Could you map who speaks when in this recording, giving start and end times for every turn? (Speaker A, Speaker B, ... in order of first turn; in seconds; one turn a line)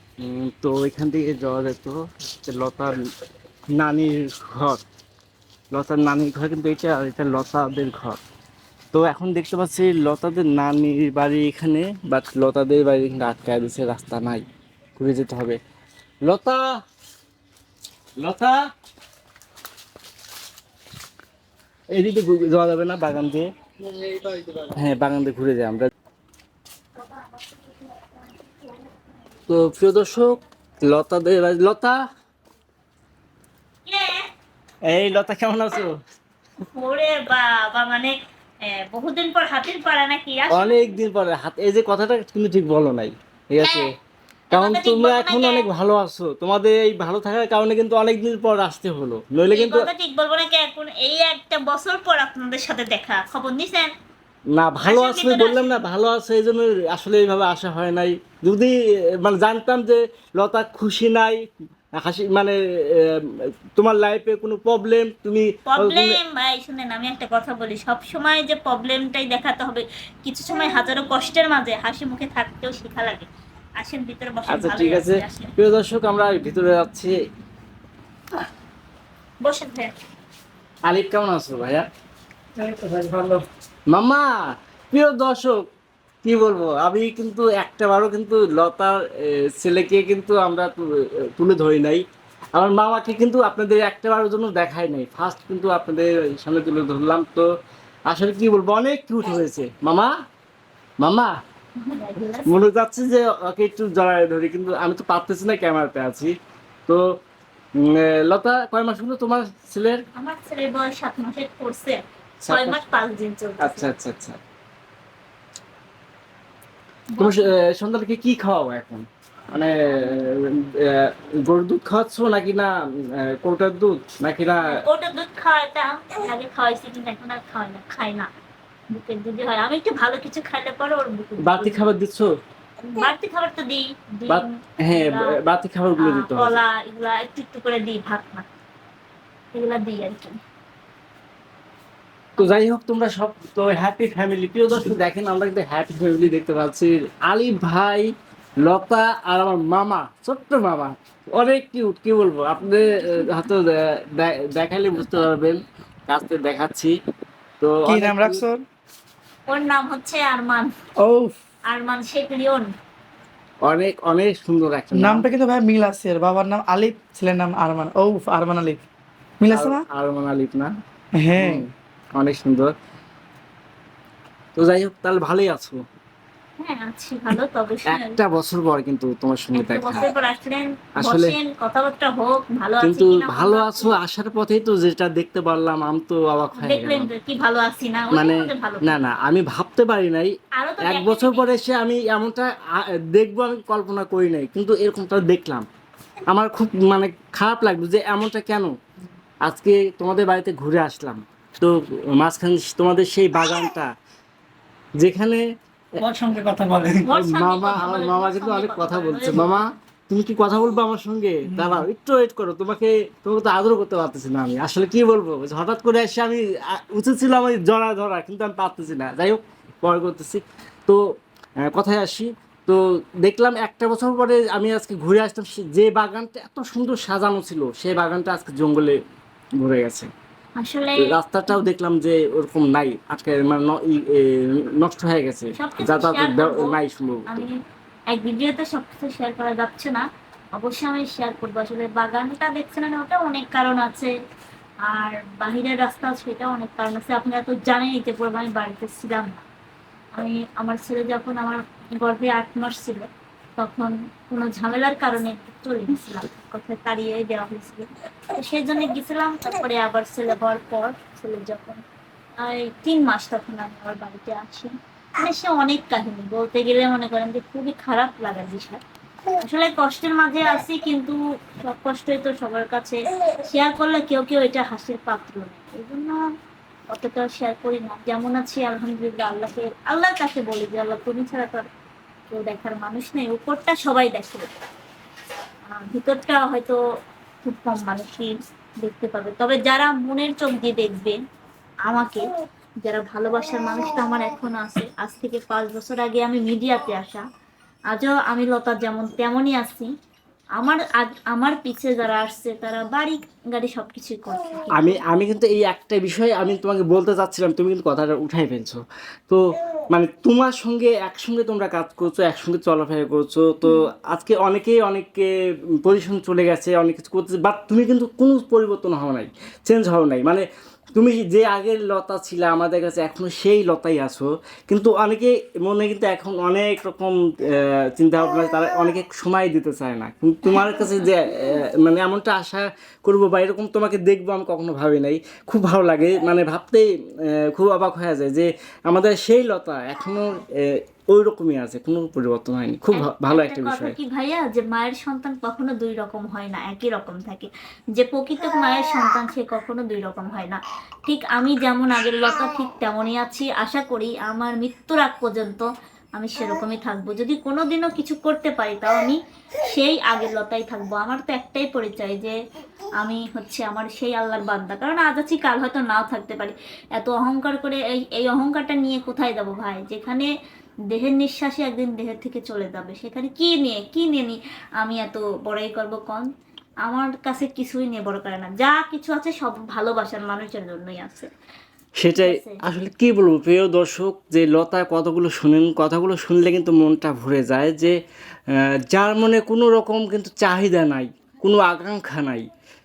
Speaker A: 0.2-3.0
Speaker A: 3.8-4.8
Speaker A: 5.7-8.2
Speaker A: 8.9-14.4
Speaker A: 15.0-15.6
Speaker A: 16.3-16.7
Speaker A: 18.2-18.7
Speaker A: 21.9-23.5
Speaker A: 24.6-25.9
Speaker A: 29.5-32.0
Speaker B: 33.9-34.3
Speaker A: 34.9-35.9
Speaker B: 36.7-41.0
Speaker A: 40.5-43.9
Speaker B: 43.6-43.9
Speaker B: 44.5-45.7
Speaker A: 44.5-49.9
Speaker B: 49.5-53.9
Speaker A: 54.5-61.4
Speaker B: 54.8-55.8
Speaker A: 62.0-66.2
Speaker B: 65.7-73.3
Speaker B: 73.8-75.5
Speaker A: 74.5-77.2
Speaker B: 79.4-79.9
Speaker A: 80.9-81.9
Speaker C: 82.6-83.4
Speaker A: 83.9-85.6
Speaker A: 86.2-97.5
Speaker A: 98.1-100.1
Speaker A: 101.0-101.3
Speaker B: 101.8-102.5
Speaker A: 102.5-106.3
Speaker A: 107.8-110.0
Speaker B: 110.2-113.9
Speaker A: 112.4-112.8
Speaker A: 113.6-114.4
Speaker B: 117.1-117.5
Speaker A: 117.2-124.8
Speaker B: 124.7-128.3
Speaker B: 128.9-131.9
Speaker A: 131.4-132.3
Speaker B: 132.9-135.4
Speaker A: 134.3-136.6
Speaker B: 136.0-138.4
Speaker B: 139.5-140.4
Speaker A: 142.4-148.1
Speaker A: 148.6-156.9
Speaker A: 157.6-158.4
Speaker C: 157.8-158.6
Speaker B: 159.5-160.7
Speaker C: 161.0-161.3
Speaker B: 161.7-162.7
Speaker A: 163.6-165.2
Speaker C: 164.9-168.8
Speaker C: 169.4-169.8
Speaker A: 169.5-170.7
Speaker C: 171.2-171.6
Speaker A: 171.4-172.7
Speaker A: 174.6-175.8
Speaker B: 176.6-178.2
Speaker A: 177.9-180.1
Speaker B: 179.5-184.0
Speaker A: 181.0-181.3
Speaker A: 182.8-187.1
Speaker B: 186.6-189.0
Speaker A: 188.1-195.7
Speaker B: 190.6-191.4
Speaker A: 196.3-198.7
Speaker A: 199.4-203.9
Speaker A: 205.0-205.4
Speaker C: 206.0-206.9
Speaker A: 206.8-221.0
Speaker B: 207.0-209.6
Speaker A: 221.6-229.0
Speaker A: 229.6-230.1
Speaker B: 230.6-231.1
Speaker A: 231.0-237.4
Speaker B: 235.6-236.7
Speaker B: 237.3-237.5
Speaker B: 238.1-240.0
Speaker B: 240.6-244.1
Speaker B: 244.9-249.4
Speaker B: 250.2-261.8
Speaker B: 262.4-268.8
Speaker B: 269.4-276.2
Speaker B: 276.9-281.7
Speaker B: 282.3-284.5
Speaker B: 285.8-286.8
Speaker B: 287.4-291.2
Speaker B: 291.9-292.3
Speaker B: 292.8-297.2
Speaker B: 297.9-299.9
Speaker B: 300.6-305.0
Speaker A: 304.7-315.3
Speaker A: 315.9-343.9
Speaker B: 330.6-330.9
Speaker B: 342.9-362.4
Speaker B: 363.0-370.3
Speaker B: 370.9-376.3
Speaker B: 376.9-381.3
Speaker A: 382.0-388.0
Speaker B: 382.2-382.6
Speaker A: 388.5-392.5